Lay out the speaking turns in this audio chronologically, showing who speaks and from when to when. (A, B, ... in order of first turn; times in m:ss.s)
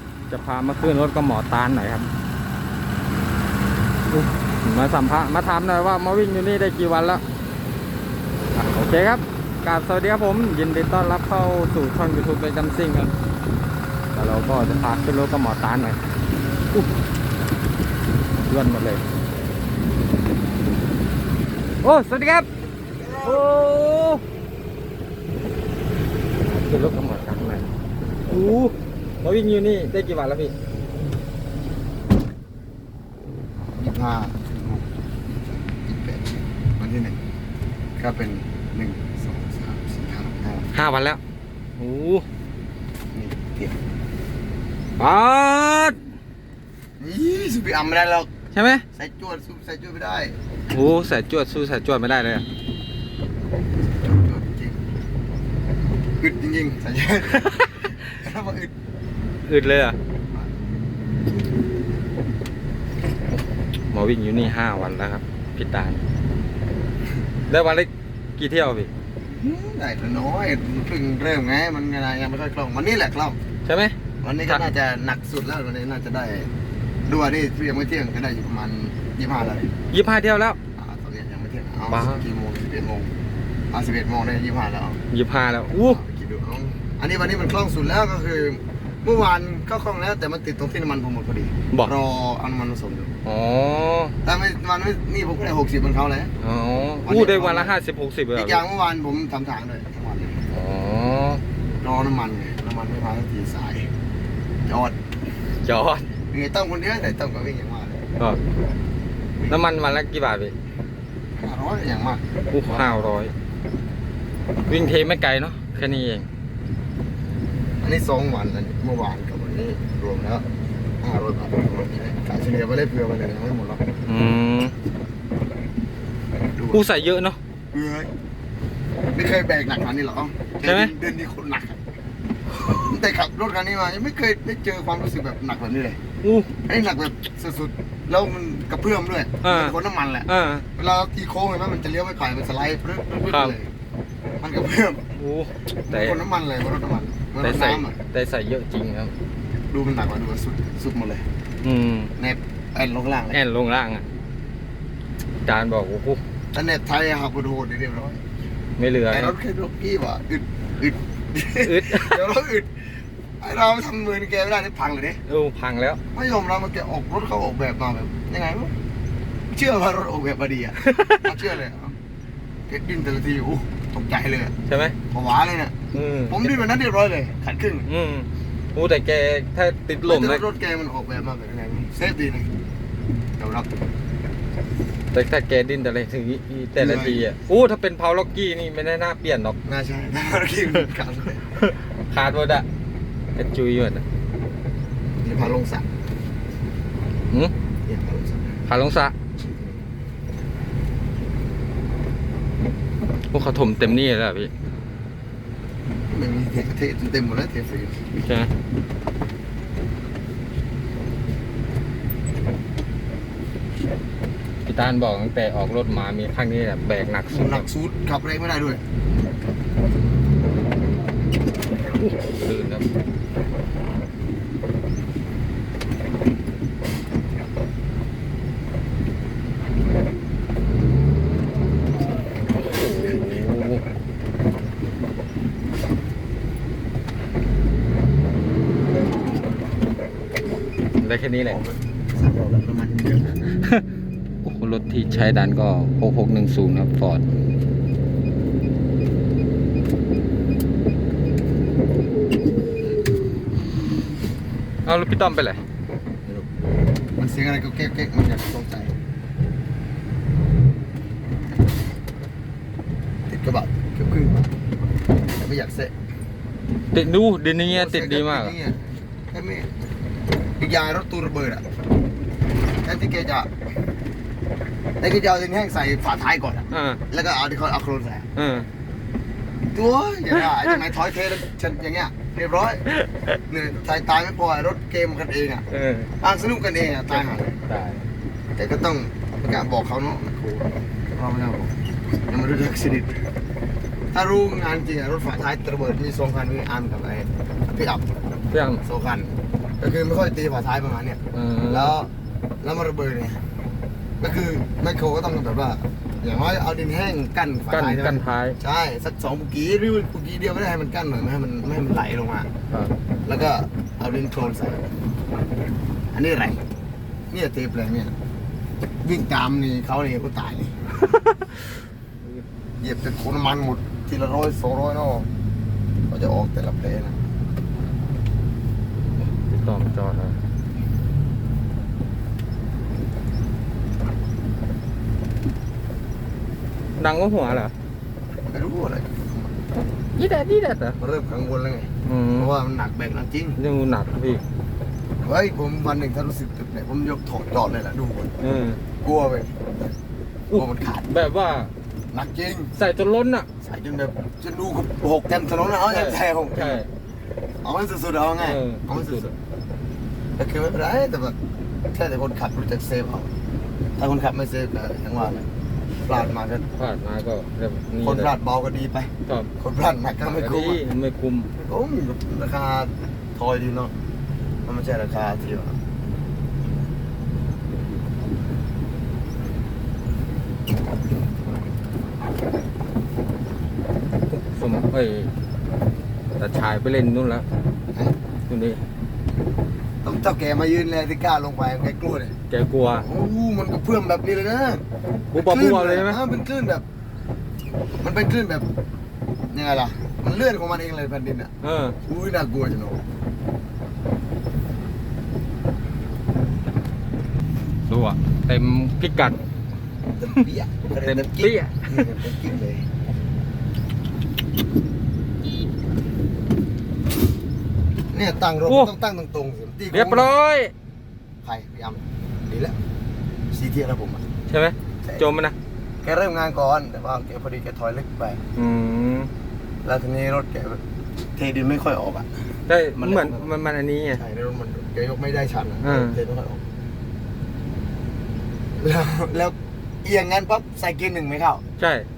0:00.3-0:02.1 A
0:04.1-0:07.2 A
0:08.5-0:13.1 A
0:14.1-0:16.0 A
0:18.4-0:19.0 A
0:21.8-0:22.5 A
0:23.0-0:23.4 B
0:23.2-0:24.2 A
0:26.5-0:27.6 A
0:28.3-0:30.5 A
0:33.8-0:37.2 B
0:38.0-0:40.7 B
0:40.7-0:41.2 A
0:41.8-0:42.2 A
0:43.1-0:43.8 B
0:45.0-0:46.0 A
0:47.0-0:48.3 B
0:48.5-0:48.8 A
0:48.9-0:50.4 B
0:50.7-0:52.4 A
0:54.0-0:54.8 B
0:56.2-0:58.7 B
0:57.4-0:57.9 A
0:59.4-1:00.0 A
1:03.9-1:06.0 A
1:07.5-1:08.9 A
1:09.2-1:13.4 B
1:13.6-1:14.7 A
1:14.2-1:16.5 B
1:17.1-1:19.7 B
1:19.9-1:20.6 A
1:20.8-1:23.1 B
1:21.9-1:22.2 A
1:23.7-1:25.0 B
1:25.1-1:26.0 A
1:25.8-1:33.1 B
1:33.2-1:34.1 A
1:34.2-1:36.3 B
1:36.4-1:38.6 A
1:37.0-1:37.7 B
1:38.3-1:40.4 B
1:40.5-1:41.4 A
1:41.8-1:43.9 B
1:44.6-1:44.9 B
1:45.6-1:46.0 A
1:46.3-1:48.0 B
1:49.5-1:50.5 A
1:51.4-1:53.2 B
1:52.5-1:53.3 A
1:54.7-1:56.3 A
1:57.8-2:00.4 B
2:01.0-2:03.8 B
2:04.0-2:04.7 A
2:06.5-2:06.9 B
2:06.7-2:07.4 A
2:07.7-2:08.1 B
2:09.1-2:11.8 B
2:10.6-2:10.9 A
2:12.7-2:16.0 B
2:16.2-2:16.5 A
2:16.6-2:23.7 B
2:19.4-2:19.7 A
2:20.3-2:20.6 A
2:23.3-2:23.5 A
2:24.4-2:25.0 B
2:25.1-2:26.2 A
2:25.8-2:28.0 B
2:27.4-2:29.1 A
2:29.7-2:31.2 B
2:31.6-2:32.1 A
2:32.2-2:33.4 B
2:33.3-2:34.1 A
2:35.4-2:36.2 A
2:36.5-2:38.2 B
2:38.8-2:39.4 A
2:39.1-2:42.7 B
2:41.6-2:42.2 A
2:43.4-2:45.2 B
2:45.3-2:46.0 A
2:46.1-2:48.7 B
2:49.5-2:52.0 B
2:50.8-2:51.3 A
2:52.7-2:54.5 B
2:54.7-2:55.0 A
2:55.1-2:55.7 B
2:55.9-2:56.6 A
2:56.3-2:57.9 B
2:57.8-3:00.4 A
3:00.0-3:02.5 B
3:03.4-3:03.7 B
3:05.1-3:09.6 A
3:06.8-3:07.3 B
3:09.6-3:11.6 B
3:11.6-3:12.6 A
3:13.3-3:14.0 A
3:15.2-3:15.8 B
3:17.8-3:18.6 B
3:18.7-3:19.1 A
3:19.4-3:19.8 B
3:23.3-3:24.5 A
3:26.1-3:28.0 B
3:28.1-3:28.5 A
3:34.6-3:37.7 A
3:37.3-3:38.8 B
3:42.0-3:42.8 A
3:52.7-3:53.8 A
4:01.0-4:01.6 A
4:01.4-4:03.4 B
4:03.6-4:03.8 A
4:04.4-4:07.2 A
4:14.8-4:15.6 A
4:17.2-4:18.9 B
4:23.3-4:24.5 B
4:25.3-4:25.9 B
4:26.9-4:28.5 A
4:27.7-4:29.7 B
4:30.6-4:31.6 B
4:32.8-4:33.5 B
4:35.0-4:38.3 B
4:36.7-4:37.0 A
4:38.4-4:38.7 A
4:39.7-4:42.8 B
4:43.5-4:45.6 B
4:45.7-4:46.1 A
4:46.2-4:47.7 B
4:47.2-4:48.0 A
4:48.6-4:51.7 B
4:52.3-4:53.2 B
4:54.1-4:58.1 B
4:58.5-4:58.8 A
4:58.8-5:02.1 B
5:01.3-5:01.9 A
5:02.6-5:03.4 B
5:04.2-5:12.5 B
5:07.7-5:08.6 A
5:13.2-5:14.9 B
5:16.1-5:16.6 B
5:17.3-5:18.1 B
5:19.0-5:20.8 B
5:22.8-5:25.3 B
5:26.1-5:27.2 B
5:29.3-5:30.4 A
5:37.0-5:37.7 A
5:38.5-5:39.5 B
5:40.2-5:41.0 A
5:41.0-5:43.6 B
5:42.0-5:42.5 A
5:43.6-5:44.4 A
5:45.2-5:48.3 B
5:48.4-5:48.8 A
5:49.0-5:49.5 B
5:50.5-5:51.1 B
5:50.5-5:51.7 A
5:52.1-5:52.7 B
5:52.8-5:53.5 A
5:53.6-5:56.8 B
5:55.9-5:56.9 A
5:57.6-5:59.3 B
5:58.4-5:59.3 A
6:00.4-6:01.4 B
6:01.9-6:03.3 B
6:04.0-6:05.4 B
6:06.0-6:06.6 B
6:06.8-6:08.3 A
6:08.0-6:10.8 B
6:09.2-6:09.5 A
6:10.2-6:11.5 A
6:11.6-6:13.9 B
6:14.6-6:15.8 B
6:24.3-6:25.3 A
6:26.4-6:27.4 A
6:28.5-6:28.8 A
6:30.0-6:32.3 B
6:32.5-6:33.1 A
6:33.0-6:34.8 B
6:35.3-6:36.2 A
6:35.3-6:36.8 B
6:38.0-6:38.7 B
6:39.5-6:41.5 B
6:41.6-6:42.0 A
6:42.0-6:43.0 B
6:47.9-6:49.4 A
6:50.2-6:52.9 B
6:51.0-6:52.1 A
6:58.1-7:00.4 B
6:59.9-7:00.7 A
7:01.4-7:02.7 B
7:03.5-7:04.2 B
7:04.5-7:05.5 A
7:06.0-7:08.4 B
7:08.6-7:09.3 A
7:09.8-7:10.8 B
7:11.4-7:12.3 B
7:12.7-7:14.2 A
7:12.9-7:13.5 B
7:14.1-7:16.6 B
7:15.8-7:16.2 A
7:18.8-7:21.6 B
7:21.8-7:22.1 A